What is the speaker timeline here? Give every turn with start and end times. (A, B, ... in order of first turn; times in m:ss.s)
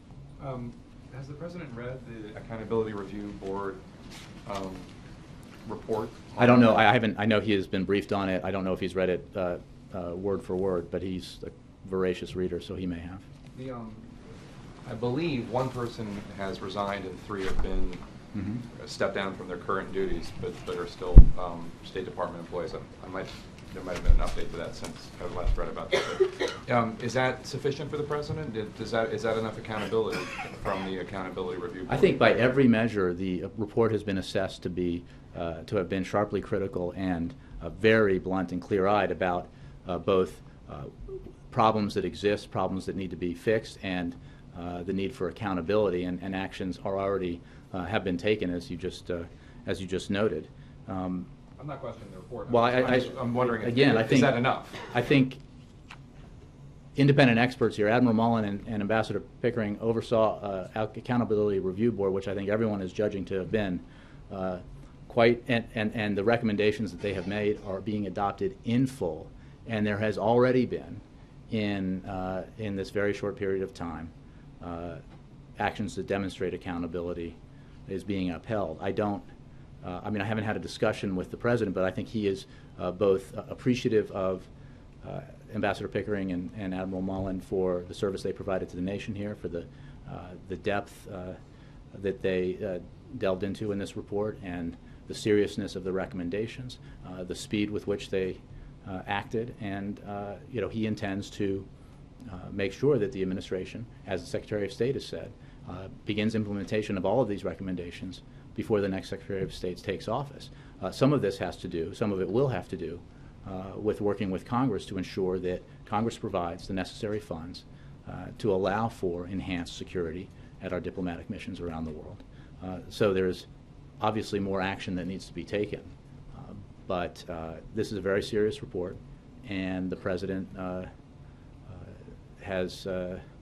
0:00.4-0:03.8 A
0:04.4-0:04.9 A
0:05.6-0:06.8 A
0:06.4-0:13.2 B
0:13.5-0:14.1 A
0:14.8-0:18.0 A
0:18.3-0:18.6 B
0:18.7-0:32.2 A
0:31.9-0:51.3 B
0:51.6-0:54.9 A
0:52.5-0:55.4 B
0:56.9-1:15.0 B
1:15.6-1:17.4 B
1:17.9-1:19.3 B
1:19.8-1:24.5 B
1:25.0-1:31.4 B
1:31.9-1:41.7 B
1:42.3-2:03.5 B
2:04.0-2:10.9 B
2:11.7-2:13.2 B